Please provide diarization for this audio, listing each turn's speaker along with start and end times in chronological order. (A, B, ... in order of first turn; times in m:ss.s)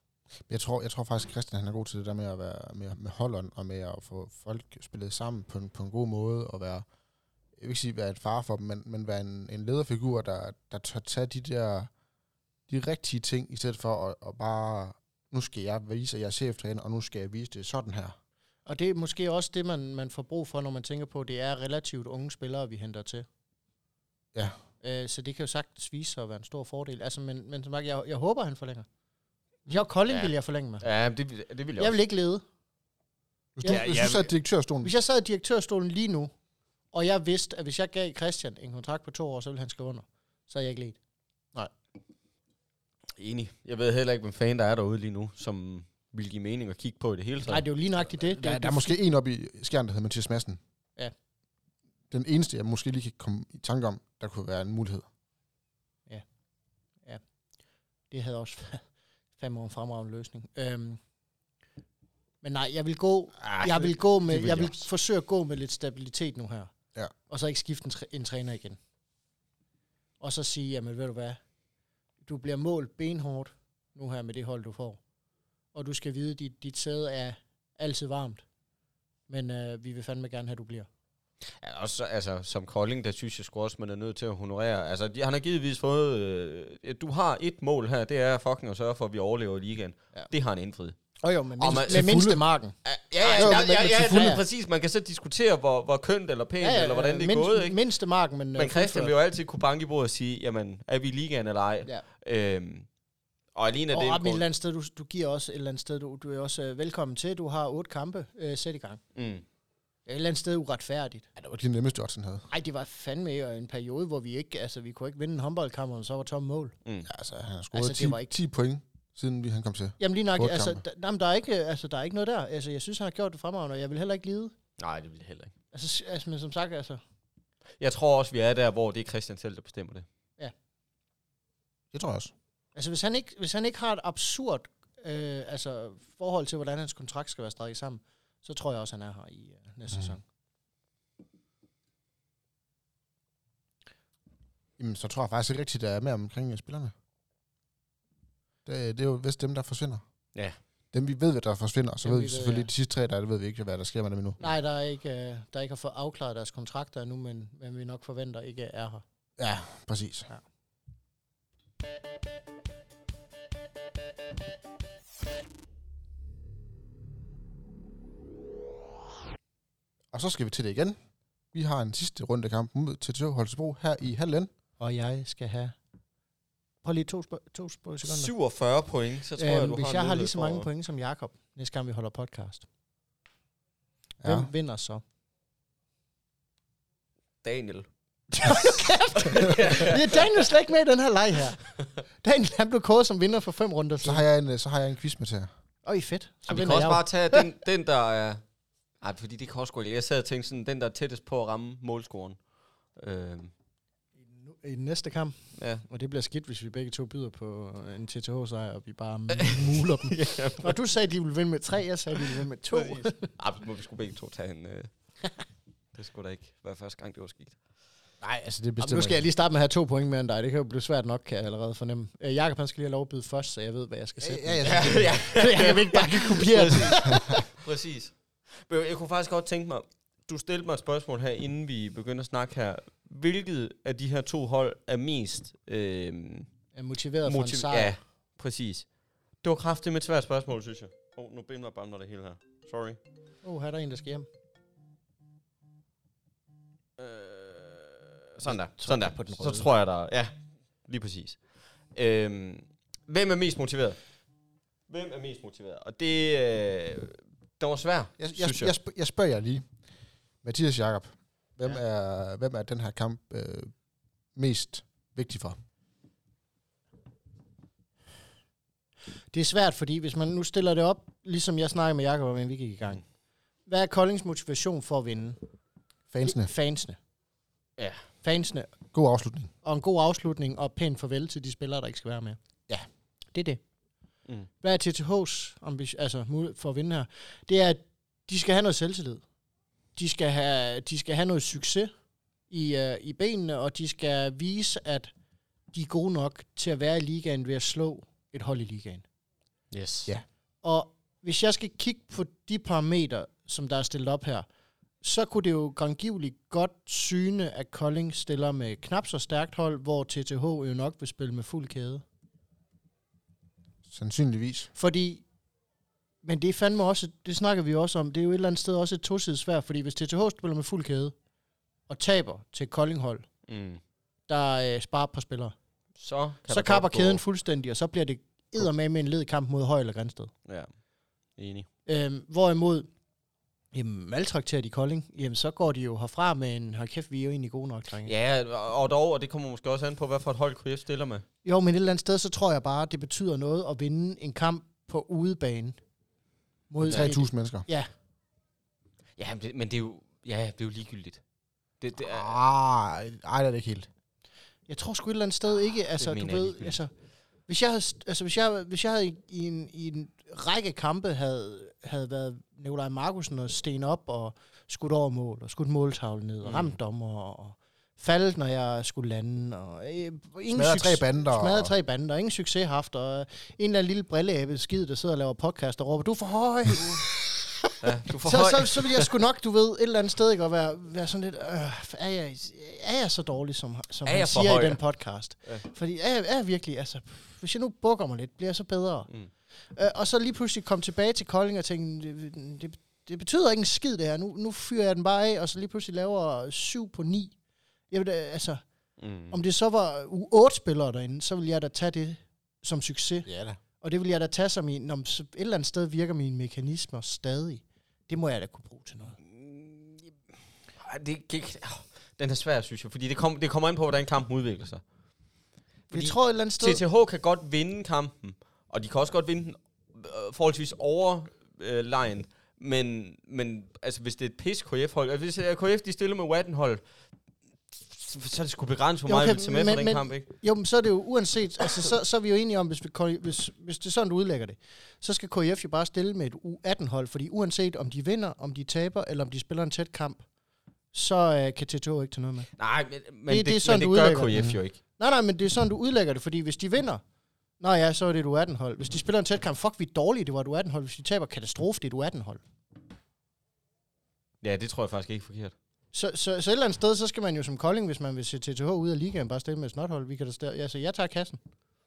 0:00.5-0:06.8 A
0:07.6-0:11.9 A
0:12.7-0:18.2 A
0:18.6-0:23.3 B
0:24.8-0:28.9 B
0:29.7-0:30.8 B
0:30.8-0:31.9 C
0:31.8-0:32.4 B
0:33.6-0:34.9 A
0:33.6-0:34.3 C
0:34.8-0:36.3 B
0:36.9-0:41.0 B
0:43.2-0:47.6 C
0:47.4-0:49.0 B
0:48.2-0:50.6 A
0:52.1-0:55.1 A
0:58.1-0:58.8 B
0:59.4-1:01.0 B
1:02.4-1:06.7 B
1:03.4-1:04.8 A
1:07.3-1:08.8 B
1:10.2-1:11.4 B
1:12.2-1:15.0 B
1:15.7-1:18.4 B
1:19.3-1:20.9 B
1:21.4-1:31.0 C
1:31.2-1:34.4 B
1:31.6-1:32.2 C
1:31.8-1:32.4 A
1:32.8-1:37.8 C
1:33.4-1:33.8 A
1:36.6-1:39.1 B
1:38.6-1:42.9 C
1:43.5-1:44.4 C
1:43.9-1:49.0 B
1:49.1-1:49.4 C
1:50.1-1:51.3 B
1:51.4-1:52.5 A
1:52.5-1:56.7 B
1:57.0-2:00.8 A
1:57.7-1:58.3 B
2:00.0-2:04.5 B
2:04.8-2:05.5 C
2:05.7-2:07.0 B
2:07.8-2:10.0 C
2:11.9-2:12.3 A
2:12.7-2:20.2 B
2:24.8-2:26.9 A
2:28.6-2:30.0 A
2:30.9-2:34.4 A
2:32.0-2:32.7 B
2:34.4-2:39.0 B
2:39.4-2:40.3 A
2:50.1-2:51.0 A
2:51.5-2:54.5 A
2:54.8-2:55.8 B
2:56.8-2:58.3 B
2:58.0-3:00.7 C
2:59.4-3:02.6 B
3:04.2-3:04.5 A
3:04.2-3:05.0 B
3:07.4-3:07.9 C
3:08.3-3:11.7 B
3:09.2-3:10.4 C
3:12.2-3:14.2 B
3:14.0-3:15.5 A
3:15.8-3:17.4 B
3:16.5-3:18.4 C
3:19.0-3:22.4 C
3:23.0-3:23.5 C
3:24.3-3:33.3 B
3:25.6-3:25.8 C
3:29.3-3:30.8 C
3:32.7-3:34.9 C
3:35.9-3:37.6 C
3:38.2-3:39.2 A
3:38.8-3:47.4 B
3:44.2-3:45.1 A
3:44.6-3:56.5 C
3:56.7-3:57.9 B
3:57.2-3:58.8 C
3:59.4-4:03.0 C
4:03.4-4:04.3 B
4:07.0-4:11.4 C
4:08.4-4:09.7 B
4:11.9-4:14.0 C
4:14.9-4:18.7 C
4:18.2-4:19.7 A
4:20.4-4:23.7 A
4:24.3-4:25.6 A
4:29.3-4:33.0 B
4:33.7-4:35.4 B
4:36.1-4:36.5 A
4:36.2-4:37.0 B
4:37.8-4:38.0 C
4:38.2-4:38.7 B
4:38.9-4:39.5 A
4:39.6-4:42.4 B
4:43.3-4:43.6 B
4:44.6-4:49.2 B
4:50.0-4:51.9 B
4:52.5-4:55.1 B
4:55.7-4:59.0 B
4:59.7-5:00.1 C
5:00.6-5:04.4 B
5:05.0-5:12.0 B
5:13.9-5:14.7 A
5:14.8-5:15.2 B
5:16.2-5:21.1 B
5:21.9-5:23.3 B
5:23.5-5:23.8 C
5:24.3-5:25.5 B
5:26.0-5:27.2 C
5:26.5-5:30.3 B
5:31.4-5:31.7 C
5:31.8-5:32.9 B
5:33.7-5:38.1 B
5:38.0-5:41.2 C
5:41.4-5:45.8 B
5:46.7-5:47.9 B
5:46.8-5:47.6 A
5:49.2-5:51.2 C
5:51.8-5:52.3 C
5:52.0-5:53.9 A
5:54.7-5:56.9 B
5:56.0-5:56.8 C
5:57.5-6:29.1 B
6:06.4-6:06.8 C
6:10.5-6:11.7 A
6:17.8-6:19.1 C
6:24.0-6:24.8 C
6:29.7-6:37.3 B
6:37.9-6:38.6 B
6:39.0-6:39.4 C
6:39.3-6:43.3 B
6:43.2-6:43.6 A
6:43.8-6:49.2 B
6:49.2-6:50.1 C
6:50.8-6:54.8 C
6:55.9-6:56.8 B
6:55.9-7:06.8 C
7:07.7-7:10.2 C
7:09.0-7:20.2 B
7:20.9-7:22.5 B
7:22.6-7:24.8 C
7:23.3-7:27.0 B
7:27.6-7:32.4 B
7:34.4-7:35.5 C
7:35.9-7:41.4 B